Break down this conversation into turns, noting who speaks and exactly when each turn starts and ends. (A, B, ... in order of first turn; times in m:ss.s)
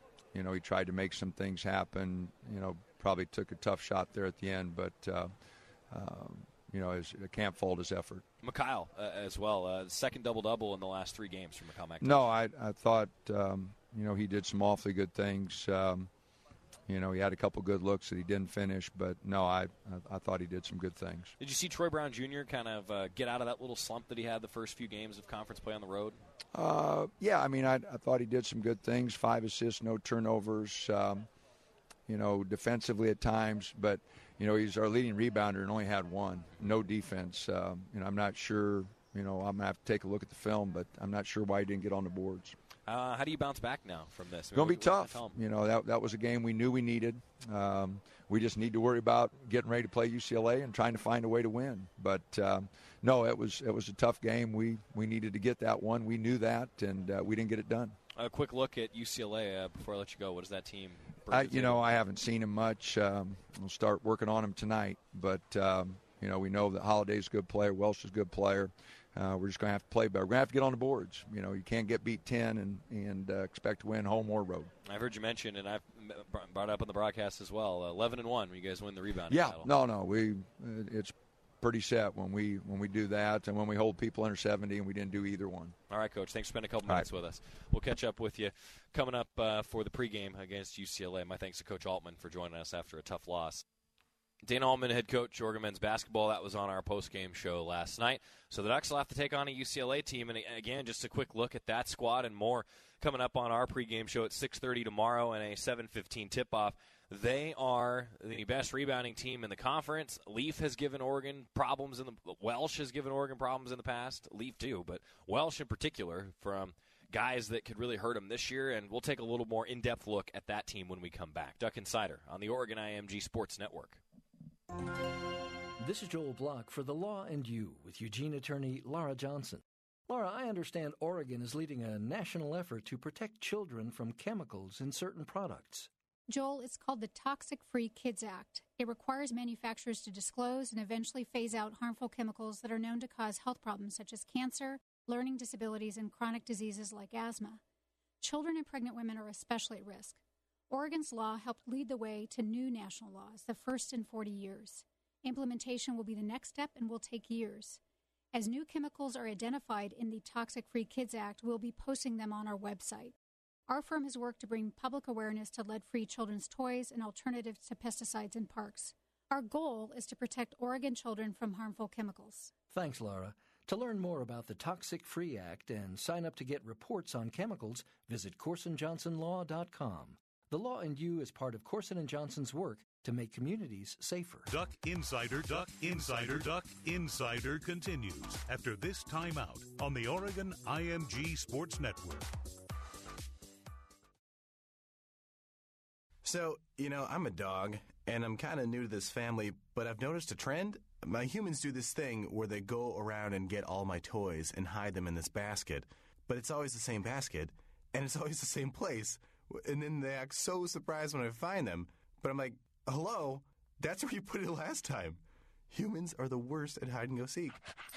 0:00.3-0:05.3 A
0:05.9-0:08.2 A
0:08.4-0:12.3 B
0:12.0-0:16.1 A
0:16.9-0:21.3 A
0:21.4-0:26.2 B
0:26.5-0:31.3 A
0:32.1-0:42.6 A
0:42.9-0:45.4 B
0:44.5-0:58.0 A
0:58.2-1:01.8 B
1:01.3-1:14.7 A
1:14.9-1:19.7 B
1:19.3-1:25.8 A
1:25.9-1:33.6 B
1:34.4-2:04.0 B
2:05.8-2:15.9 C
2:16.3-2:27.6 D
2:28.2-2:30.2 D
2:30.7-2:37.8 D
2:38.3-2:43.1 D
2:43.7-2:52.6 D
2:52.7-3:04.5 C
3:04.5-3:12.3 E
3:16.2-3:37.6 F